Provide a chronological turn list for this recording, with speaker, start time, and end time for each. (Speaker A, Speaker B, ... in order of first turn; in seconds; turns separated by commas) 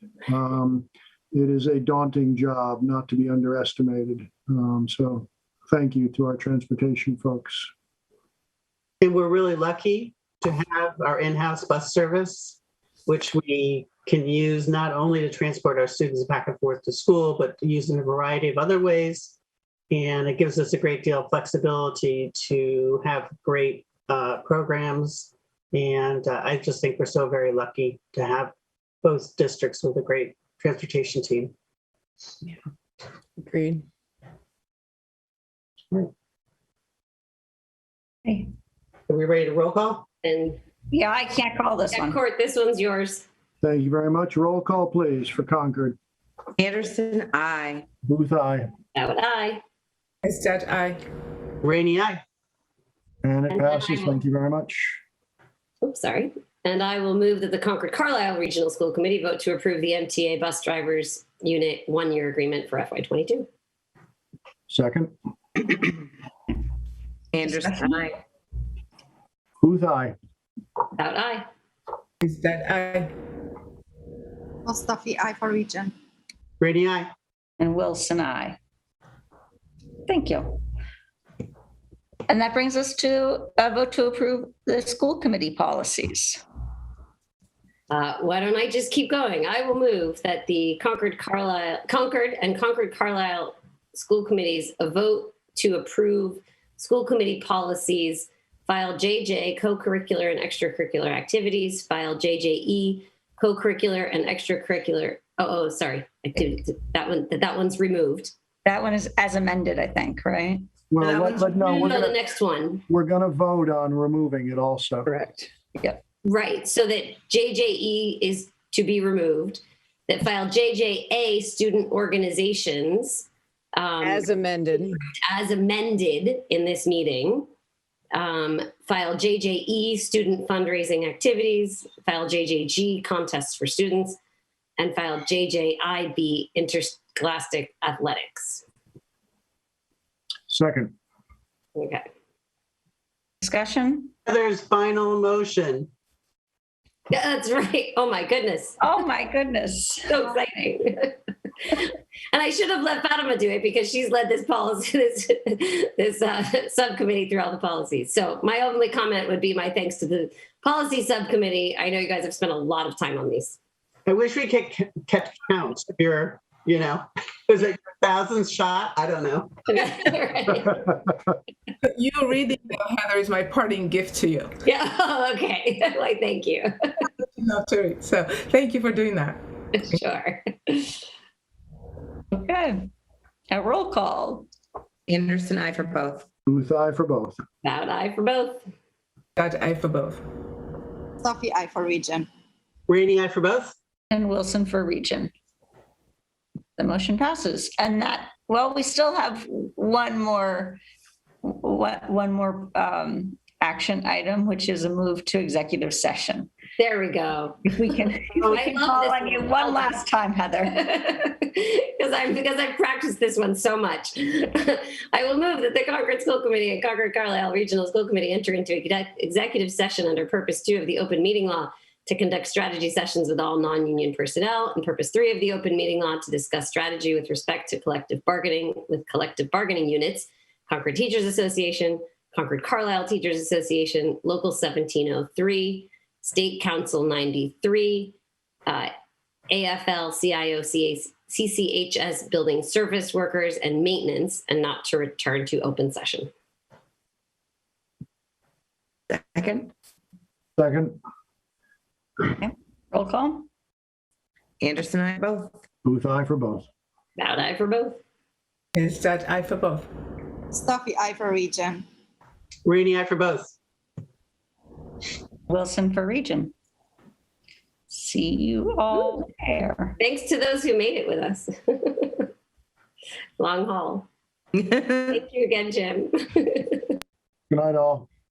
Speaker A: 0.3-7.7, Speaker B: 9.0-19.3, Speaker B: 19.9-31.5, Speaker B: 39.1-40.0, Speaker C: 40.2-40.6, Speaker D: 40.9-42.2, Speaker C: 41.9-43.2, Speaker A: 43.6-46.0, Speaker E: 46.6-47.9, Speaker A: 48.1-48.7, Speaker C: 48.9-49.6, Speaker F: 50.2-51.0, Speaker B: 51.6-52.2, Speaker A: 53.2-55.0, Speaker C: 53.5-54.1, Speaker C: 55.8-63.5, Speaker A: 64.7-65.1, Speaker E: 67.3-68.2, Speaker A: 69.6-70.1, Speaker C: 71.0-71.5, Speaker F: 72.2-73.1, Speaker G: 74.6-75.9, Speaker B: 76.6-77.1, Speaker D: 77.6-78.6, Speaker D: 80.1-80.6, Speaker D: 82.3-86.4, Speaker C: 87.9-108.3, Speaker D: 108.6-110.7, Speaker A: 110.9-112.2, Speaker C: 111.6-112.8, Speaker A: 112.9-115.1, Speaker C: 116.2-124.3, Speaker E: 124.0-125.0, Speaker C: 125.2-127.5, Speaker C: 128.1-134.2, Speaker C: 134.8-138.6, Speaker A: 140.5-140.9, Speaker C: 141.8-142.1, Speaker D: 143.4-144.1, Speaker B: 144.2-145.9, Speaker C: 147.1-148.8, Speaker D: 148.8-150.1, Speaker C: 150.1-163.6, Speaker B: 164.1-169.5, Speaker C: 169.7-171.0, Speaker F: 171.8-174.6, Speaker C: 174.6-176.9, Speaker F: 177.3-179.4, Speaker C: 179.7-181.0, Speaker D: 182.3-182.9, Speaker D: 183.5-184.5, Speaker E: 185.1-186.2, Speaker A: 186.5-187.4, Speaker C: 187.6-188.7, Speaker F: 189.3-190.2, Speaker G: 191.2-192.3, Speaker B: 192.9-193.7, Speaker D: 194.1-195.3, Speaker D: 196.8-200.8, Speaker D: 201.4-206.5, Speaker C: 206.8-207.6, Speaker D: 207.7-210.8, Speaker C: 208.4-210.0, Speaker C: 210.8-238.9, Speaker C: 239.5-246.3, Speaker E: 249.1-249.7, Speaker A: 250.6-251.0, Speaker D: 252.3-253.5, Speaker E: 254.6-255.6, Speaker A: 255.8-256.6, Speaker C: 257.2-258.0, Speaker F: 258.7-259.9, Speaker G: 260.5-261.8, Speaker B: 262.6-263.6, Speaker D: 265.5-266.5, Speaker D: 267.9-269.9, Speaker C: 270.0-272.3, Speaker C: 273.4-274.1, Speaker C: 275.1-276.9, Speaker A: 277.5-278.1